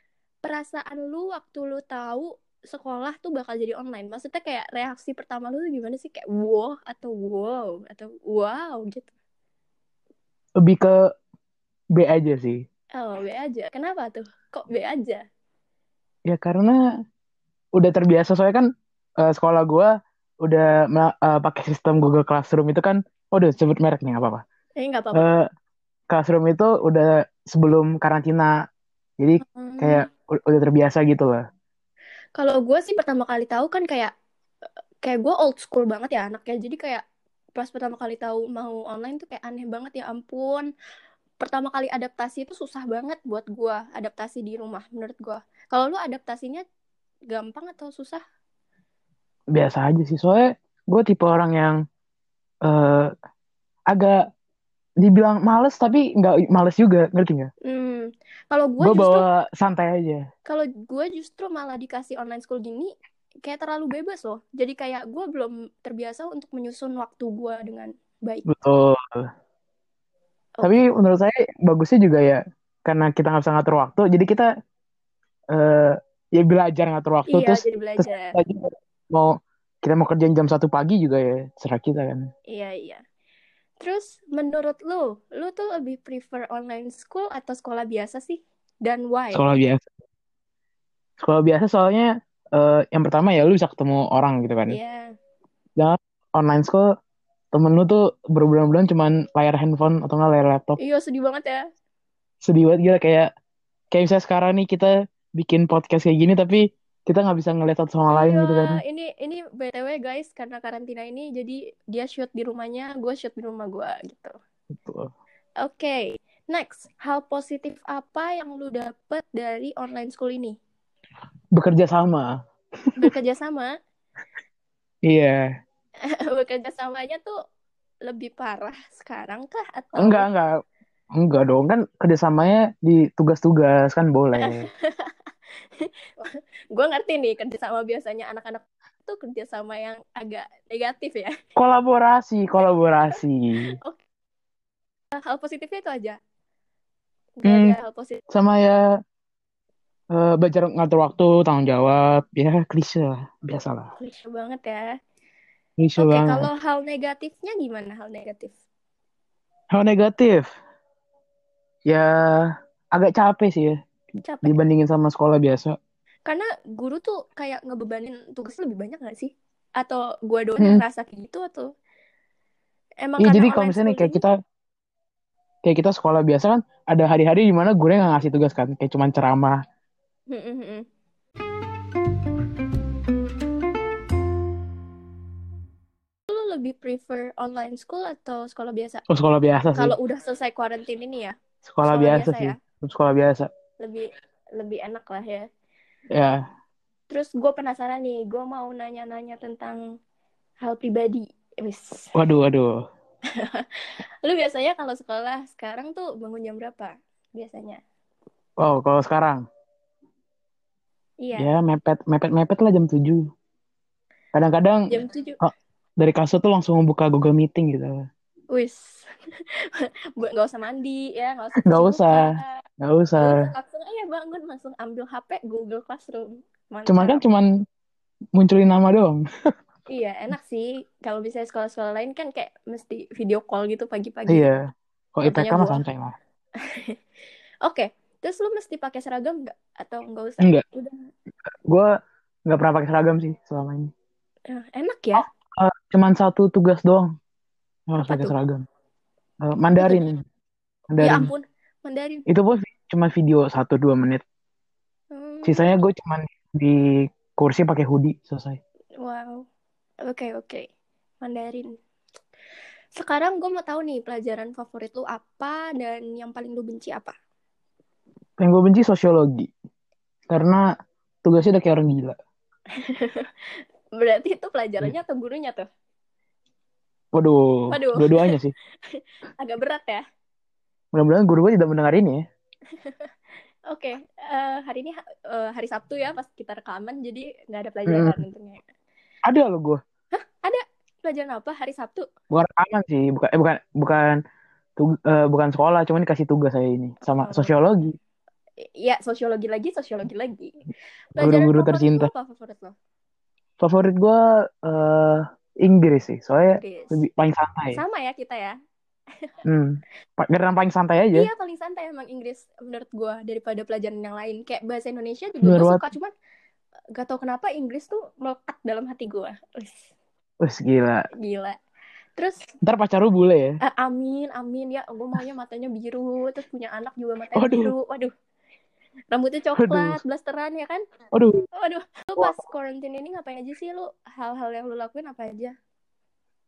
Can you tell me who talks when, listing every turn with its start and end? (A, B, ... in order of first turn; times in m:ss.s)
0:00.4-0:09.1 A
0:10.6-0:10.9 B
0:12.0-0:12.6 B
0:13.0-0:15.2 A
0:16.3-0:16.8 B
0:17.8-0:18.7 B
0:19.2-0:19.9 B
0:20.4-0:24.4 B
0:24.8-0:25.3 A
0:25.1-0:25.5 B
0:26.1-0:28.5 B
0:29.2-0:31.4 B
0:29.4-0:30.1 A
0:32.4-0:34.1 A
0:35.0-0:37.0 A
0:37.6-0:40.7 A
0:41.4-0:46.6 A
0:47.3-0:48.2 A
0:49.5-0:51.8 B
0:52.6-0:53.1 B
0:53.9-0:54.2 B
0:55.0-0:57.5 B
0:57.6-0:59.2 A
0:58.8-1:00.2 B
1:00.5-1:02.9 A
1:03.4-1:08.5 A
1:08.5-1:09.3 B
1:10.6-1:10.8 A
1:10.6-1:14.5 B
1:15.5-1:19.3 B
1:17.3-1:18.4 A
1:19.8-1:22.3 B
1:22.5-1:23.0 A
1:23.8-1:29.5 A
1:29.3-1:29.9 B
1:31.2-1:34.8 B
1:34.7-1:35.2 A
1:35.8-1:36.9 B
1:37.5-1:40.8 B
1:40.8-1:41.6 A
1:42.4-1:43.3 B
1:43.9-1:48.8 B
1:48.1-1:54.3 A
1:54.8-1:55.1 B
1:55.6-2:00.6 A
2:01.6-2:02.3 B
2:03.0-2:03.7 A
2:05.1-2:05.5 B
2:06.3-2:07.4 A
2:08.1-2:10.3 A
2:10.0-2:10.6 B
2:11.2-2:14.7 B
2:14.4-2:15.1 A
2:15.8-2:21.3 A
2:21.6-2:23.6 B
2:22.6-2:23.2 A
2:25.2-2:26.2 A
2:27.4-2:28.2 A
2:27.4-2:27.8 B
2:28.3-2:28.8 B
2:30.1-2:33.9 B
2:34.0-2:34.9 A
2:35.8-2:36.5 B
2:36.0-2:38.5 A
2:39.7-2:40.4 B
2:41.9-2:43.8 B
2:44.2-2:44.6 A
2:44.4-2:45.8 B
2:46.3-2:51.7 A
2:53.0-2:54.2 A
2:53.2-2:54.3 B
2:55.6-2:59.6 B
3:00.3-3:00.8 A
3:06.3-3:09.0 A
3:09.1-3:10.0 B
3:09.8-3:11.3 A
3:11.6-3:13.5 B
3:11.9-3:12.6 A
3:13.8-3:15.5 A
3:16.1-3:16.4 B
3:17.1-3:19.8 A
3:20.6-3:22.1 A
3:22.2-3:22.8 B
3:24.2-3:27.8 A
3:28.6-3:29.4 B
3:31.2-3:31.5 A
3:31.4-3:33.3 B
3:34.3-3:38.1 B
3:34.9-3:35.4 A
3:38.5-3:39.1 A
3:39.8-3:42.6 A
3:41.6-3:43.5 B
3:43.2-3:47.2 A
3:46.9-3:47.5 B
3:48.4-3:49.2 B
3:49.9-3:54.5 A
3:54.3-3:54.6 B
3:55.2-3:56.2 B
3:55.2-3:55.8 A
3:57.6-4:00.9 A
4:02.5-4:03.9 B
4:04.5-4:05.3 A
4:05.2-4:07.1 B
4:07.9-4:08.6 B
4:08.0-4:08.3 A
4:09.4-4:10.2 B
4:10.9-4:11.3 B
4:11.0-4:12.3 A
4:12.3-4:14.2 B
4:15.1-4:15.8 A
4:15.4-4:18.6 B
4:19.0-4:19.4 A
4:20.1-4:20.7 A
4:21.2-4:21.7 A
4:23.0-4:27.1 A
4:28.4-4:29.5 B
4:30.3-4:30.6 B
4:31.2-4:32.1 B
4:32.8-4:33.3 A
4:34.0-4:35.7 A
4:37.2-4:38.5 B
4:37.7-4:38.4 A
4:38.9-4:40.0 A
4:40.9-4:42.2 B
4:42.8-4:43.1 A
4:43.7-4:48.6 A
4:47.9-4:48.2 B
4:49.3-4:49.8 B
4:50.2-4:52.0 A
4:52.3-4:54.2 B
4:54.8-4:58.0 B
4:57.0-4:57.6 A
4:58.8-5:00.6 A
5:01.2-5:02.7 A
5:01.2-5:02.1 B
5:03.6-5:07.8 B
5:06.6-5:07.0 A
5:07.7-5:08.5 A
5:09.4-5:11.3 B
5:11.1-5:16.1 A
5:15.4-5:15.8 B
5:17.0-5:19.9 A
5:20.4-5:21.1 B
5:21.2-5:21.6 A
5:22.2-5:22.5 A
5:22.6-5:23.6 B
5:23.6-5:28.1 A
5:27.4-5:27.7 B
5:29.1-5:30.8 A
5:29.6-5:30.0 B
5:31.1-5:31.4 B
5:31.6-5:35.5 A